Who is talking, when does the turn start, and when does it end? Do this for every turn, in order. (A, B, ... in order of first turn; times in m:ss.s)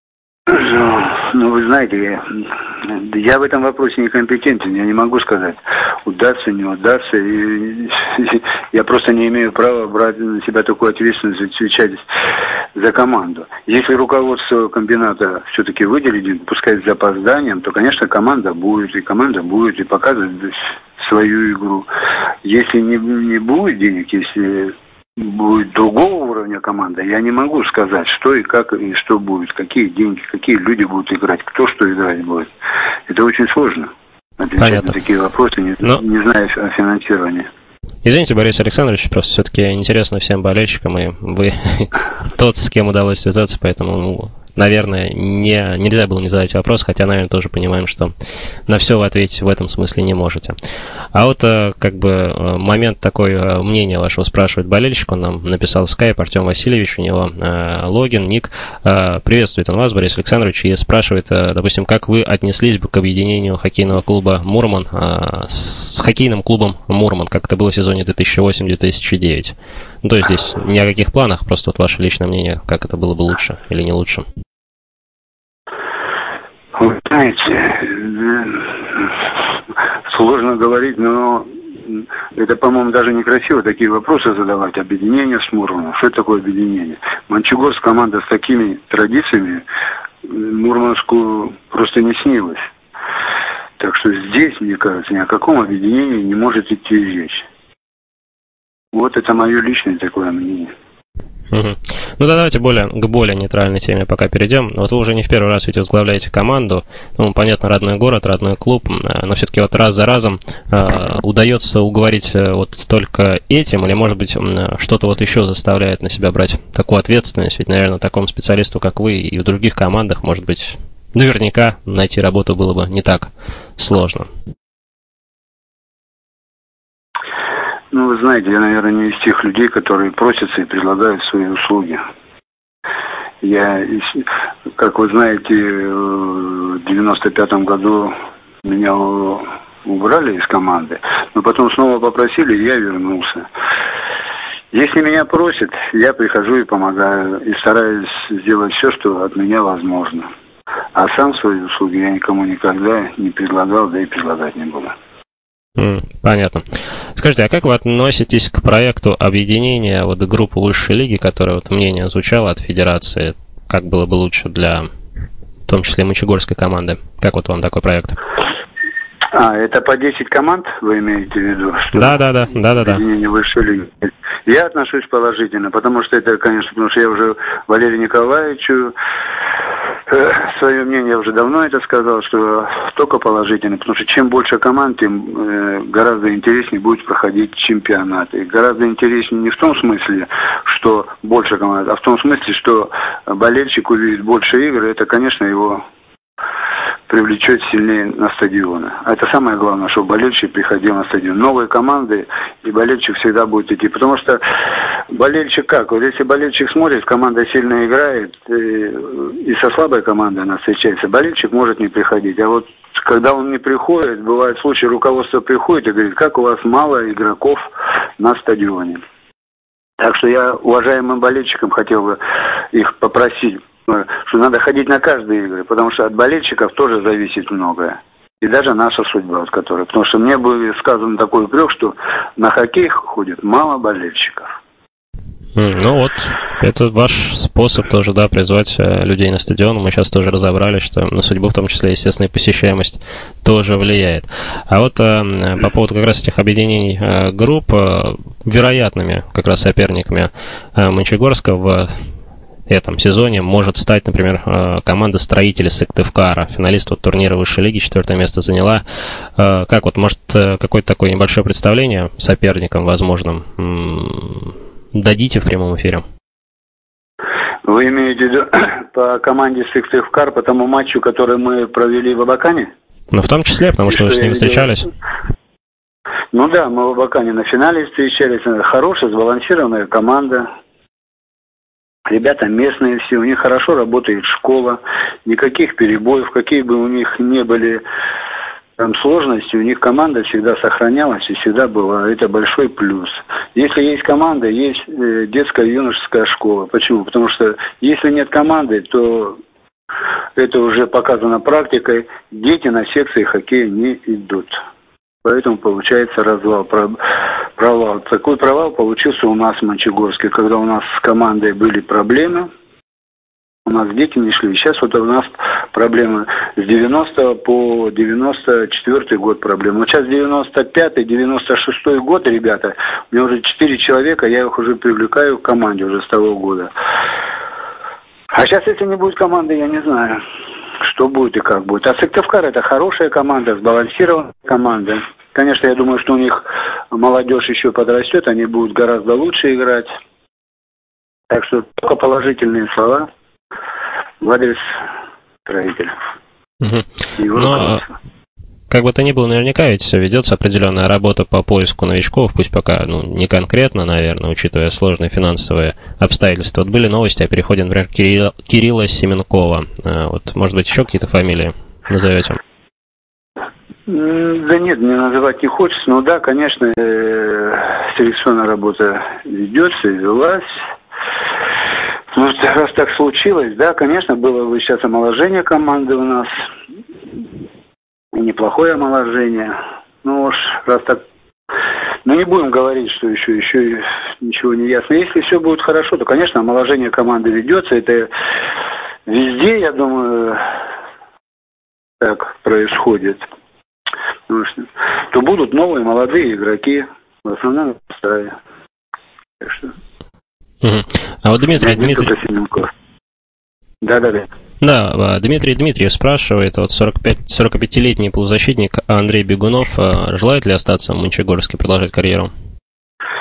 0:00.5-0:12.0 A
0:12.7-0:21.9 A
0:22.4-0:32.5 A
0:33.1-0:37.5 A
0:34.6-0:34.9 B
0:38.0-0:48.1 B
0:48.7-0:50.5 B
0:51.1-1:14.2 B
1:16.8-1:19.1 A
1:20.1-1:29.6 A
1:30.2-1:32.6 A
1:33.8-1:37.4 A
1:38.9-1:40.7 A
1:41.5-2:04.3 B
2:07.9-2:12.0 A
2:13.4-2:23.4 A
2:24.7-2:30.3 A
2:30.9-2:34.9 A
2:35.8-2:36.6 B
2:37.2-2:44.9 B
2:45.7-2:48.2 B
2:49.3-2:52.2 A
2:51.9-2:53.0 B
2:52.8-2:58.9 A
3:00.1-3:15.8 A
3:17.1-3:24.4 A
3:25.1-3:37.7 A
3:38.2-3:39.0 A
3:40.0-3:42.2 A
3:42.7-3:54.5 A
3:55.6-4:11.9 B
4:12.7-4:18.8 B
4:19.4-4:26.0 B
4:27.6-4:32.7 A
4:33.1-4:34.9 B
4:33.9-4:34.7 A
4:36.3-4:40.5 A
4:42.1-4:47.8 A
4:48.8-4:59.4 A
5:00.4-5:04.6 A
5:05.2-5:07.0 A
5:07.6-5:12.5 A
5:13.6-5:26.7 A
5:28.3-5:30.2 A
5:30.8-5:39.9 A
5:41.3-5:43.1 A
5:44.2-5:44.6 A
5:45.4-5:45.9 A
5:46.6-5:47.8 B
5:47.2-5:47.9 A
5:48.7-6:02.4 B
6:03.9-6:10.5 A
6:12.1-6:16.3 A
6:18.1-6:21.0 A
6:22.0-6:28.1 A
6:29.0-6:30.5 A
6:32.0-6:33.2 A
6:34.3-6:38.4 A
6:39.4-6:39.7 A
6:40.6-6:42.1 B
6:41.6-6:42.7 A
6:43.8-6:44.3 A
6:44.6-6:52.3 B